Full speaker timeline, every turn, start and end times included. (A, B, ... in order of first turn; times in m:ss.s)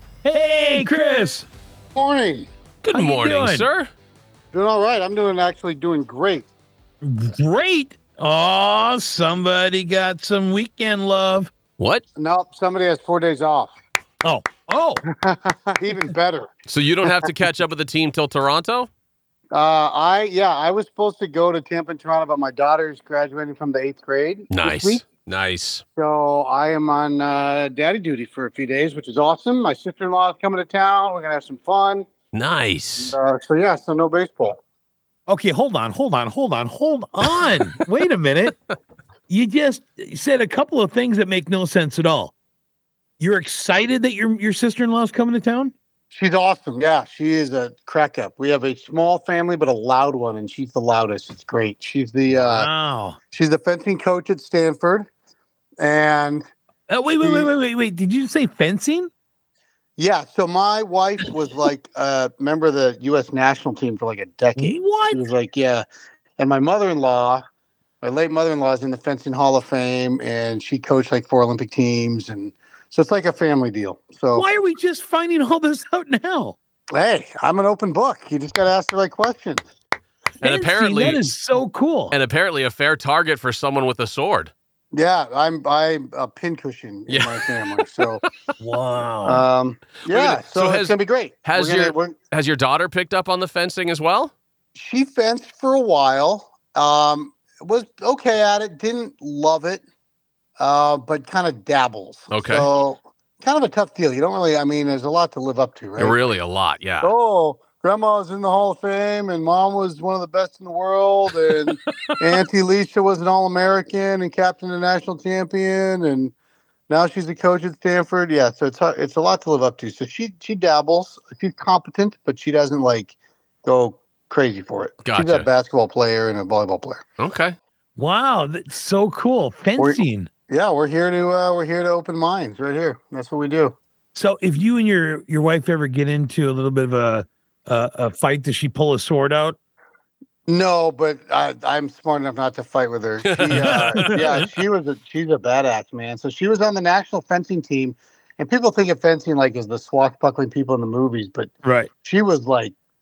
0:00.2-0:01.5 A
0:01.9-0:02.5 B
0:02.8-0:03.9 C
0:02.9-0:03.7 A
0:04.5-0:06.5 B
0:07.0-0:11.5 A
0:11.8-0:12.0 C
0:12.1-0:13.7 B
0:14.2-0:15.0 A
0:15.1-0:16.5 B
0:16.7-0:18.9 C
0:19.5-0:25.0 B
0:24.5-0:25.8 C
0:26.0-0:32.0 B
0:32.3-0:33.2 C
0:33.0-0:34.6 B
0:35.3-0:38.6 A
0:39.3-0:42.3 A
0:43.2-0:45.7 A
0:46.1-0:52.7 B
0:52.3-0:53.2 A
0:53.3-0:55.1 B
0:55.8-0:56.4 B
0:56.9-0:59.1 A
0:57.2-0:57.5 B
1:00.0-1:05.8 B
1:04.6-1:05.2 A
1:06.4-1:07.4 B
1:08.0-1:14.5 B
1:14.3-1:16.6 A
1:16.9-1:19.6 B
1:20.4-1:21.3 C
1:20.4-1:22.1 A
1:22.1-1:24.5 C
1:24.9-1:28.2 B
1:27.1-1:27.5 C
1:28.6-1:29.4 A
1:29.2-1:32.1 B
1:30.1-1:34.3 C
1:34.7-1:39.8 B
1:40.6-1:46.2 B
1:42.3-1:42.7 C
1:46.0-1:47.1 C
1:47.0-1:56.3 B
1:56.9-2:07.0 B
2:05.0-2:05.5 C
2:07.2-2:07.6 C
2:08.0-2:10.3 A
2:09.8-2:13.8 B
2:14.2-2:19.6 A
2:20.5-2:31.5 B
2:23.2-2:24.2 C
2:23.5-2:24.4 A
2:31.6-2:31.9 A
2:32.0-2:32.7 B